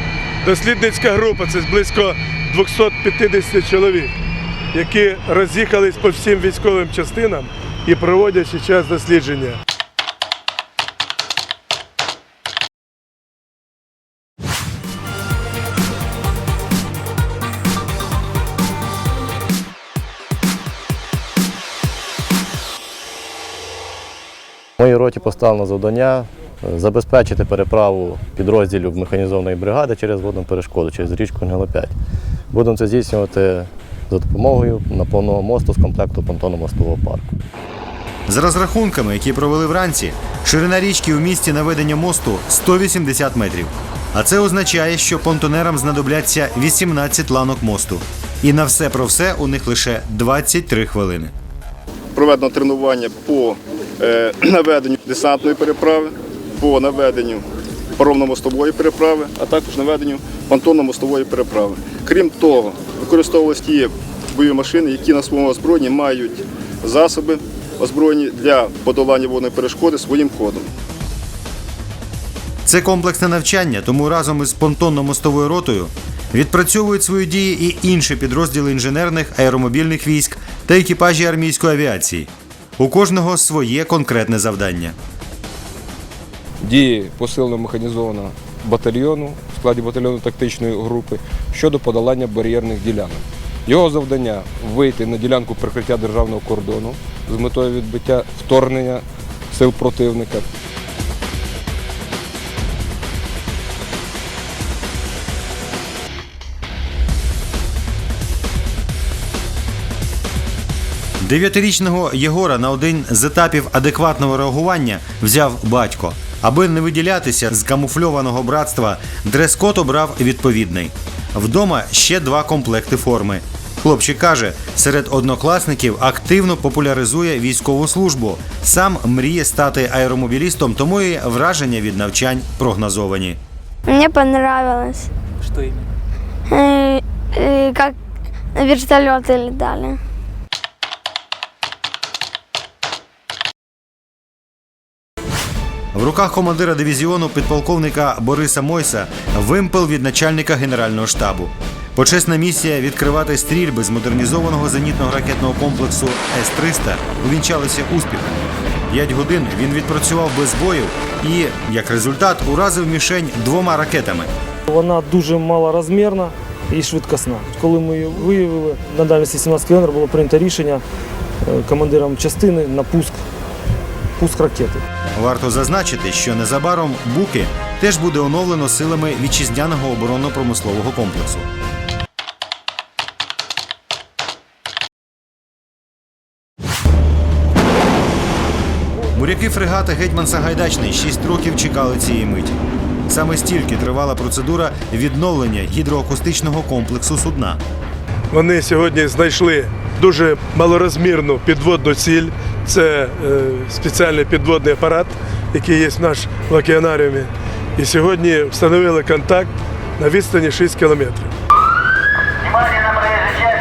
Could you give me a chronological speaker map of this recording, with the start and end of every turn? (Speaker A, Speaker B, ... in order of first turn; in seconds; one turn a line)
Speaker A: 0.4-4.1
Speaker A: 4.7-9.6
Speaker B: 24.8-31.9
Speaker B: 32.5-37.4
Speaker C: 38.3-51.3
Speaker D: 52.1-57.4
Speaker D: 58.0-70.7
Speaker C: 72.7-85.0
Speaker E: 86.6-100.5
Speaker C: 111.2-133.4
Speaker F: 133.9-135.1
Speaker F: 136.5-137.9
Speaker F: 138.6-140.0
Speaker C: 145.9-158.4
Speaker C: 158.9-164.3
Speaker G: 164.7-170.8
Speaker G: 171.5-173.2
Speaker G: 174.2-174.8
Speaker C: 175.2-181.5
Speaker C: 189.2-192.6
Speaker C: 193.1-197.6
Speaker A: 198.3-211.3